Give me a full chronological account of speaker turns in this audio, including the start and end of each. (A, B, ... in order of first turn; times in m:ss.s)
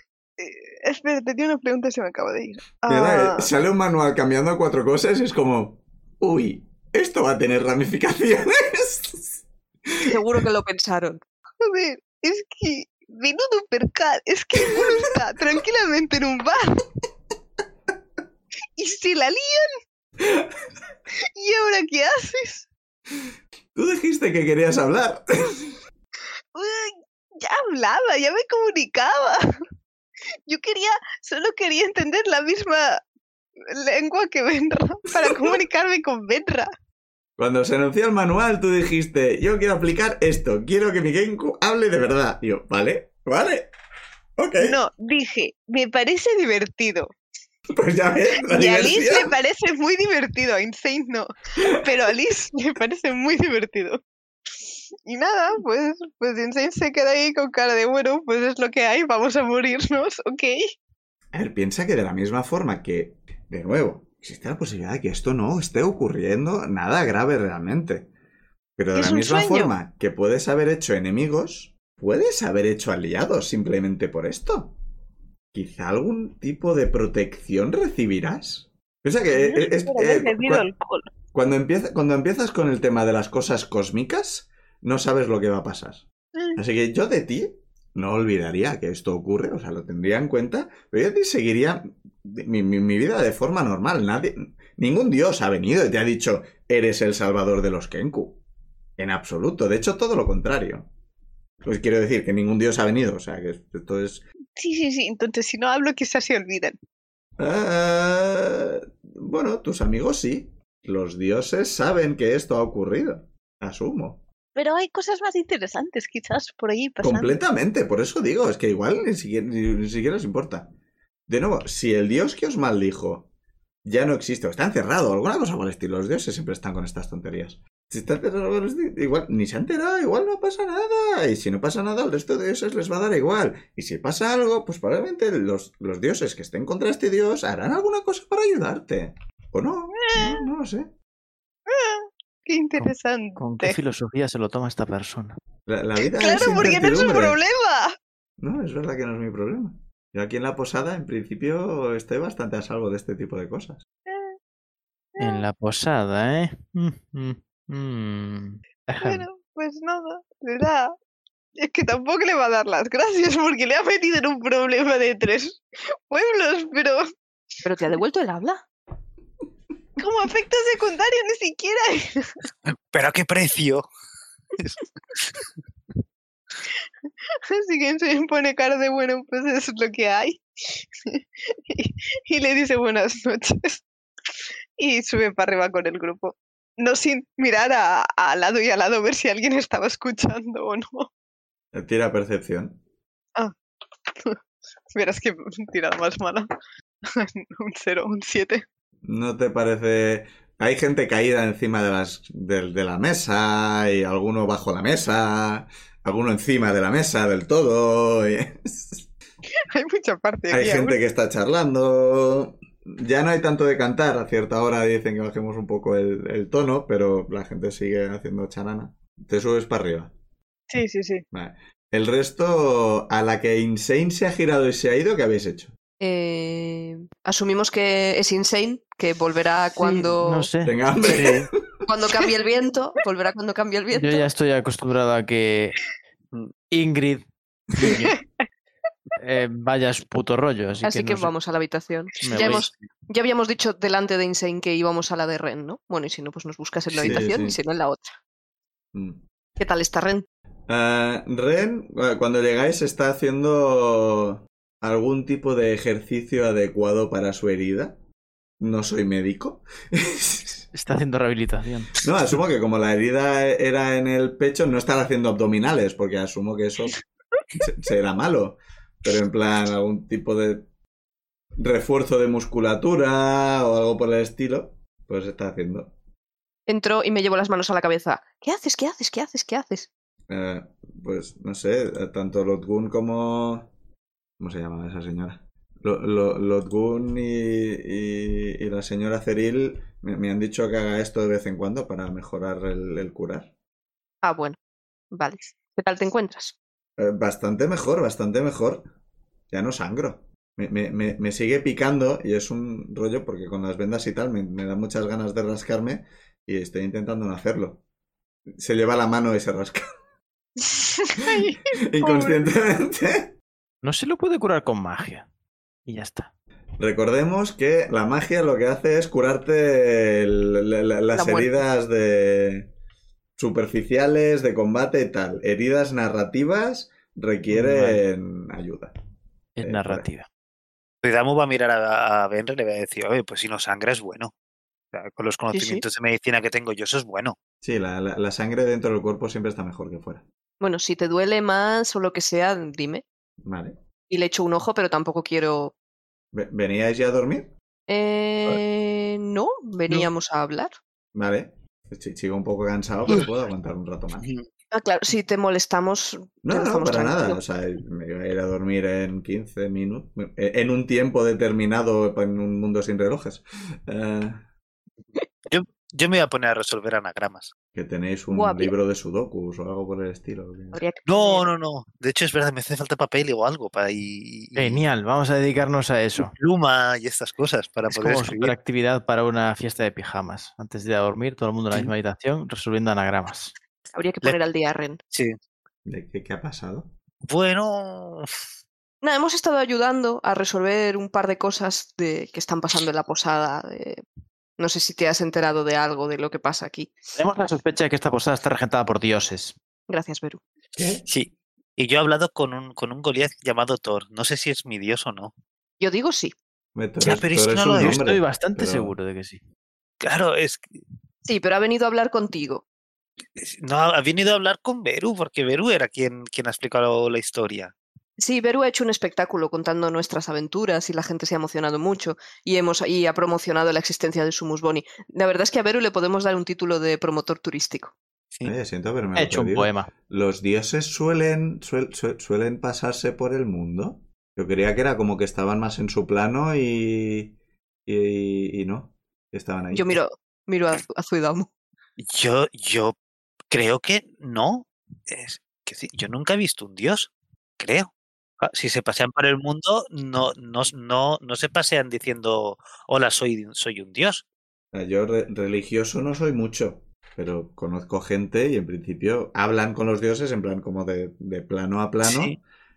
0:00.4-0:03.5 A
0:02.9-0:10.2 B
0:10.0-0:11.2 C
0:11.6-0:16.9 A
0:14.8-0:15.0 B
0:18.8-0:19.7 A
0:20.2-0:20.5 B
0:21.4-0:22.7 A
0:23.8-0:25.8 B
0:26.5-0:29.4 A
0:30.5-0:33.0 A
0:33.7-0:36.7 A
0:35.2-0:35.5 B
0:37.4-0:43.7 B
0:44.4-0:44.8 B
0:44.6-0:47.1 A
0:47.7-0:49.4 B
0:48.4-0:54.0 A
0:55.1-1:00.6 A
1:01.3-1:08.1 B
1:08.8-1:14.7 B
1:08.9-1:09.7 A
1:15.5-1:20.7 B
1:19.3-1:21.1 A
1:21.3-1:26.0 B
1:26.6-1:38.4 B
1:39.0-1:40.9 B
1:41.6-1:44.2 B
1:44.6-1:46.8 A
1:47.4-1:54.2 B
1:54.6-1:57.3 A
1:57.0-2:00.7 B
2:01.3-2:03.3 B
2:03.9-2:20.9 B
2:19.9-2:20.5 A
2:21.7-2:23.8 A
2:22.8-2:25.3 D
2:25.7-2:27.4 B
2:26.0-2:27.9 A
2:28.4-2:33.8 B
2:34.1-2:34.4 A
2:35.2-2:39.2 D
2:39.0-2:40.9 A
2:41.6-2:47.0 A
2:47.6-2:48.6 C
2:50.0-2:52.4 A
2:52.7-2:53.8 E
2:54.6-2:55.5 E
2:57.5-3:03.9 A
3:04.8-3:11.1 A
3:11.7-3:12.8 B
3:14.9-3:16.5 A
3:17.1-3:18.6 A
3:19.0-3:29.1 B
3:29.7-3:31.0 A
3:30.5-3:40.1 B
3:40.7-3:41.2 A
3:41.3-3:45.7 B
3:46.0-3:50.5 C
3:49.8-3:50.7 D
3:50.6-3:51.5 B
3:51.1-3:51.5 E
3:51.9-3:54.3 C
3:53.9-3:55.8 D
3:56.7-3:58.2 D
3:57.8-3:58.2 A
3:59.2-4:01.3 D
4:00.8-4:08.2 C
4:02.2-4:02.7 D
4:02.3-4:02.7 E
4:07.0-4:07.2 E
4:07.0-4:07.6 B
4:08.9-4:09.2 B
4:09.6-4:10.3 C
4:10.7-4:18.0 B
4:18.6-4:20.7 B
4:20.7-4:21.9 D
4:22.0-4:27.0 B
4:27.6-4:30.7 B
4:31.6-4:35.9 B
4:36.7-4:39.9 C
4:40.3-4:43.7 B
4:44.4-4:53.5 B
4:54.2-4:54.6 C
4:55.1-4:56.6 C
4:57.0-4:58.8 B
4:59.5-5:07.8 B
5:08.6-5:09.9 B
5:10.6-5:12.4 A
5:11.3-5:13.3 B
5:13.8-5:15.3 D
5:15.9-5:16.3 D
5:16.8-5:22.7 B
5:21.2-5:21.6 C
5:23.4-5:28.9 B
5:27.5-5:28.0 D
5:29.6-5:30.3 D
5:29.6-5:30.1 B
5:31.0-5:34.3 E
5:34.9-5:37.4 E
5:35.5-5:35.8 C
5:37.6-5:40.2 B
5:40.6-5:43.0 C
5:43.4-5:43.7 B
5:44.1-5:45.7 C
5:46.3-5:47.5 B
5:47.9-5:50.7 C
5:51.1-5:54.3 B
5:54.7-5:57.4 C
5:56.4-6:04.4 B
6:05.5-6:07.5 E
6:07.7-6:10.8 B
6:08.3-6:08.7 C
6:10.7-6:11.5 C
6:11.1-6:14.8 E
6:14.6-6:16.3 D
6:16.2-6:18.5 E
6:17.9-6:23.5 D
6:24.0-6:25.0 C
6:25.8-6:26.9 B
6:27.3-6:28.3 E
6:29.0-6:34.0 C
6:34.6-6:36.9 C
6:37.2-6:39.6 D
6:39.9-6:40.4 C
6:40.8-6:41.1 B
6:41.1-6:45.3 E
6:45.8-6:46.3 C
6:46.8-6:48.9 B
6:47.0-6:48.0 E
6:47.8-6:49.4 D
6:50.0-6:50.7 E
6:51.2-6:52.6 C
6:53.4-6:57.7 E
6:58.2-7:07.9 C
7:08.4-7:17.4 B
7:09.2-7:09.9 D
7:17.9-7:20.0 B
7:19.7-7:21.5 C
7:22.0-7:23.0 E
7:23.5-7:34.2 E
7:34.7-7:42.4 B
7:42.0-7:42.4 E